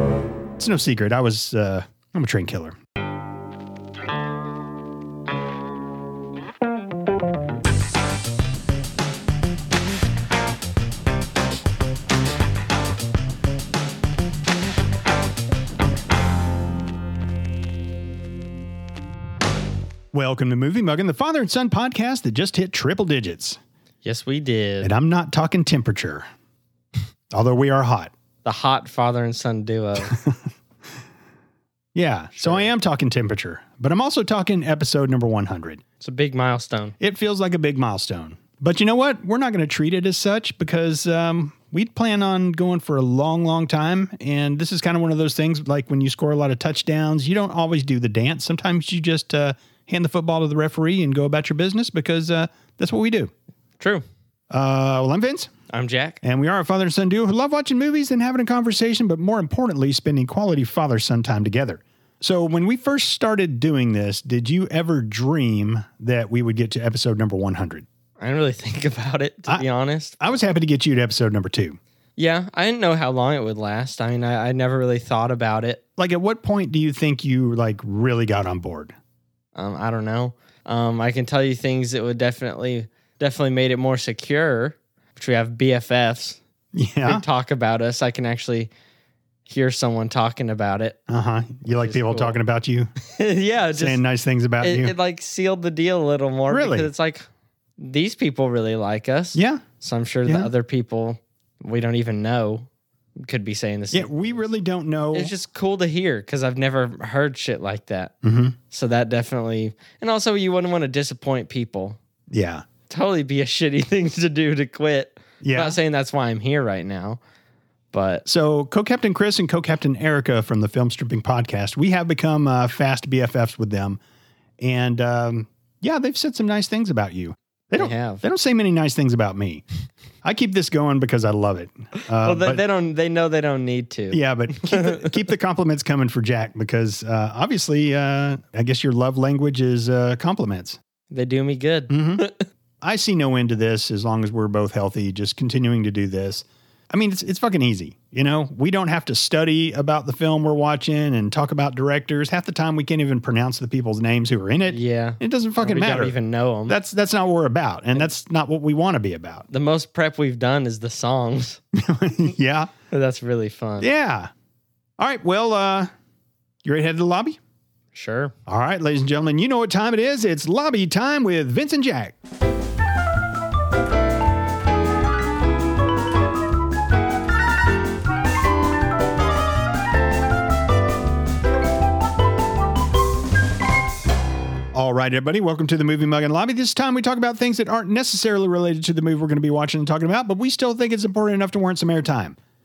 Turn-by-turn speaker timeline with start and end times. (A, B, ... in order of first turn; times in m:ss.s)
0:00.6-0:02.7 A
0:20.1-0:23.6 A
0:24.0-0:24.9 B
0:24.8-0:26.2 A
0:27.3-0:28.1 A
0:28.4-0:30.2 B
0:30.0-0:30.4 A
0:31.9-0:35.8 A
0:32.4-0:32.7 B
0:36.0-0:37.0 B
0:37.0-0:53.3 A
0:53.8-0:54.0 B
0:54.5-0:55.5 A
0:55.7-0:56.2 B
0:56.2-1:07.8 A
1:08.2-1:10.2 B
1:10.2-1:11.8 A
1:12.2-1:15.8 B
1:16.0-1:18.9 A
1:19.5-1:26.4 B
1:26.7-1:27.2 A
1:27.0-1:28.7 B
1:29.4-1:31.0 B
1:31.1-1:32.9 A
1:31.7-1:32.4 B
1:33.0-1:34.0 B
1:33.7-1:34.9 A
1:34.6-1:37.2 B
1:36.5-1:36.9 A
1:37.8-1:42.7 B
1:39.3-1:39.6 A
1:43.2-1:44.4 B
1:43.9-1:45.3 A
1:45.1-1:48.1 B
1:48.2-1:48.6 A
1:48.7-1:52.0 B
1:52.3-1:52.6 A
1:52.9-1:57.2 B
1:55.4-1:55.8 A
1:57.9-1:58.2 B
1:58.2-2:04.0 A
2:04.6-2:09.6 A
2:07.7-2:08.2 B
2:10.2-2:12.6 A
2:12.2-2:15.2 B
2:14.1-2:20.8 A
2:21.1-2:22.4 B
2:21.9-2:22.2 A
2:22.8-2:36.2 A
2:34.7-2:36.8 B
2:36.7-2:39.4 A
2:39.5-2:41.6 B
2:41.7-2:42.7 A
2:42.9-2:43.9 B
2:43.8-2:44.3 A
2:45.0-2:45.9 A
2:46.6-2:47.4 A
2:47.9-2:48.3 B
2:48.5-2:52.2 A
3:04.7-3:12.4 A